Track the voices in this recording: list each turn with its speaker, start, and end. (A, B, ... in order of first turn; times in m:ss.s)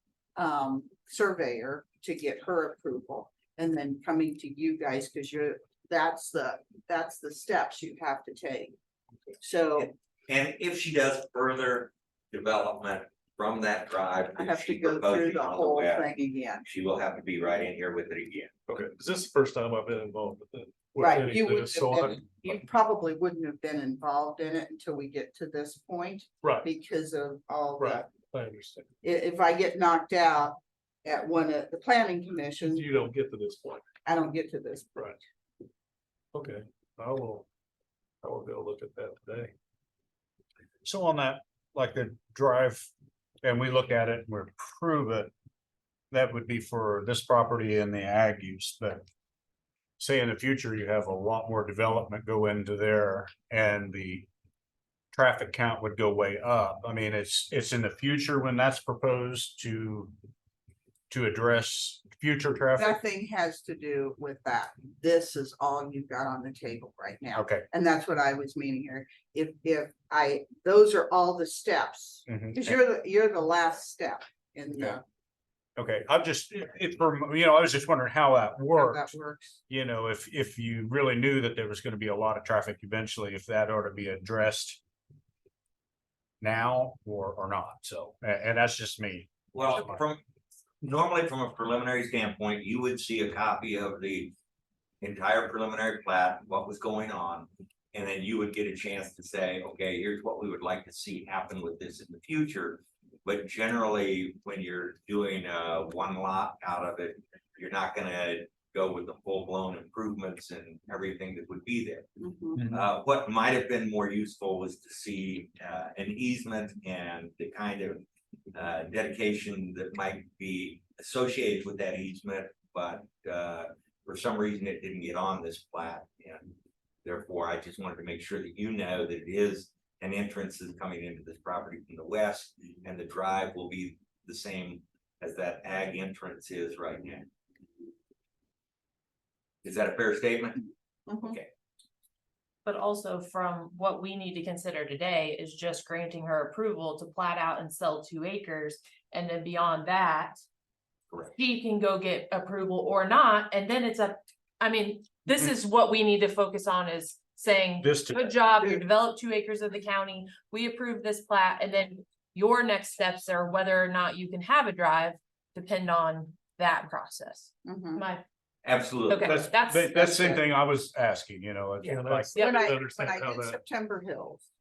0:00.4-0:08.7 A
0:09.4-0:09.9 A
0:09.8-0:16.1 B
0:14.4-0:16.6 A
0:16.6-0:18.5 B
0:18.7-0:22.6 C
0:21.0-0:28.1 A
0:27.8-0:28.9 C
0:29.0-0:32.8 A
0:32.6-0:33.8 C
0:34.0-0:34.9 A
0:36.3-0:37.5 C
0:38.2-0:39.5 C
0:40.8-0:42.9 D
0:43.4-0:45.3 D
0:46.1-0:49.0 D
0:50.0-0:54.3 D
0:55.1-1:00.1 D
1:01.1-1:03.0 D
1:02.8-1:15.0 A
1:07.3-1:07.6 D
1:12.2-1:12.8 D
1:15.8-1:19.1 D
1:18.7-1:19.6 A
1:19.7-1:24.8 D
1:26.4-1:30.0 D
1:29.5-1:30.2 B
1:30.8-1:34.3 B
1:35.0-1:52.0 B
1:52.2-1:52.6 A
1:52.5-1:52.9 D
1:52.7-1:58.0 B
1:58.5-2:06.5 B
2:07.0-2:17.2 B
2:19.6-2:20.6 B
2:21.1-2:21.4 A
2:21.2-2:21.5 B
2:22.6-2:30.4 E
2:31.3-2:48.2 E
2:37.8-2:38.3 D
2:47.6-2:48.0 A
2:48.6-2:49.4 B
2:49.1-2:50.4 E
2:49.2-2:52.4 D
2:50.0-2:50.4 A
2:51.8-2:53.6 C
2:52.3-2:52.7 E
2:52.4-2:54.4 A